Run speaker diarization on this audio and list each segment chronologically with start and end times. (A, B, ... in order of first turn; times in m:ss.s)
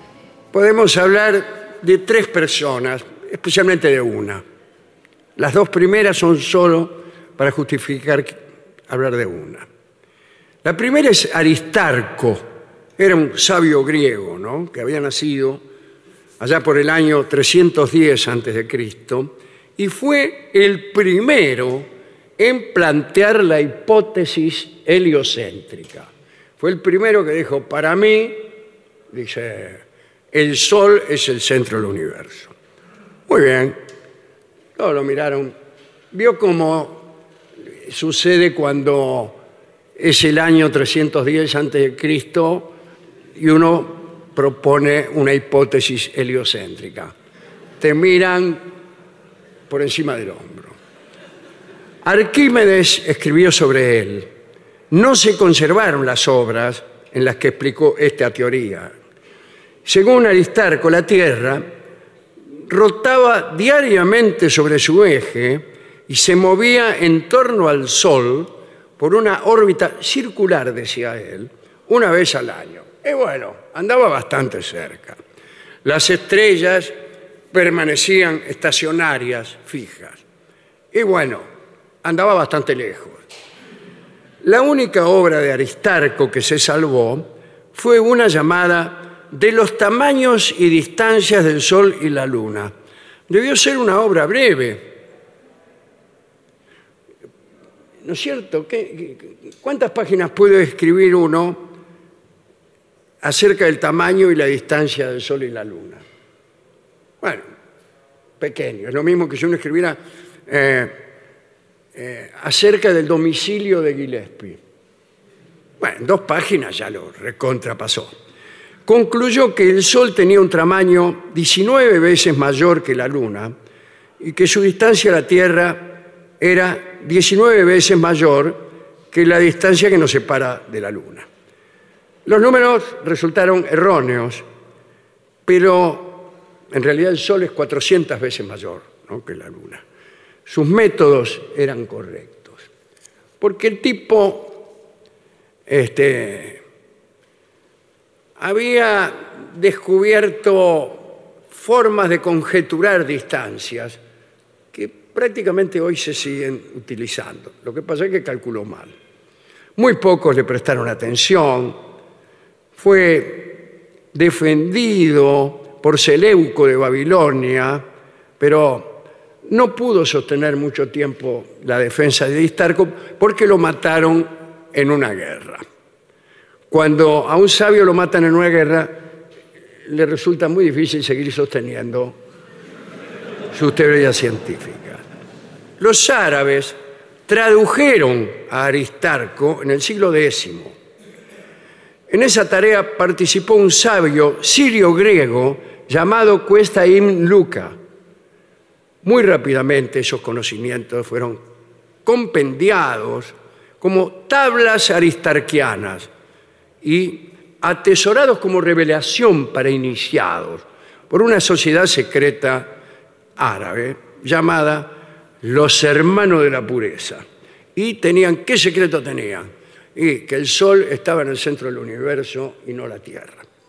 0:00.5-0:04.4 A
0:05.4-0:08.4 A
0:08.9-0:09.7 A
0:10.6-0:12.4 A
0:13.0-0:15.6 A
0:16.4-0:28.4 A
0:29.1-0:32.5 A
0:33.3-0:33.8 A
0:34.8-0:35.5 A
0:36.1-0:37.1 A
0:37.8-0:39.4 A
0:40.0-0:42.8 A
0:43.4-0:47.1 A
0:47.8-0:48.6 A
0:49.7-0:50.7 A
0:52.0-0:54.3 A
0:54.9-0:58.9 A
0:59.8-1:01.7 A
1:02.7-1:15.2 A
1:15.8-1:16.9 A
1:17.5-1:20.2 A
1:20.9-1:21.5 A
1:22.0-1:23.2 A
1:24.4-1:32.7 A
1:33.3-1:34.9 A
1:38.0-1:41.7 A
1:43.2-1:46.0 A
1:47.2-1:47.5 A
1:48.4-1:51.0 A
1:52.0-1:54.6 A
1:55.8-1:58.1 A
1:58.9-2:03.5 A
2:04.2-2:11.3 A
2:12.3-2:14.4 A
2:15.5-2:19.8 A
2:20.5-2:22.6 A
2:23.4-2:24.7 A
2:25.7-2:26.6 A
2:28.4-2:34.0 A
2:34.7-2:38.9 A
2:39.8-2:41.8 A
2:42.8-2:47.8 A
2:48.4-2:55.6 A
2:56.7-2:59.1 A
2:59.9-3:02.2 A
3:03.5-3:05.0 A
3:05.8-3:06.8 A
3:07.3-3:10.8 A
3:12.1-3:17.8 A
3:19.0-3:21.4 A
3:22.0-3:26.1 A
3:26.8-3:32.8 A
3:33.4-3:37.2 A
3:37.8-3:43.4 A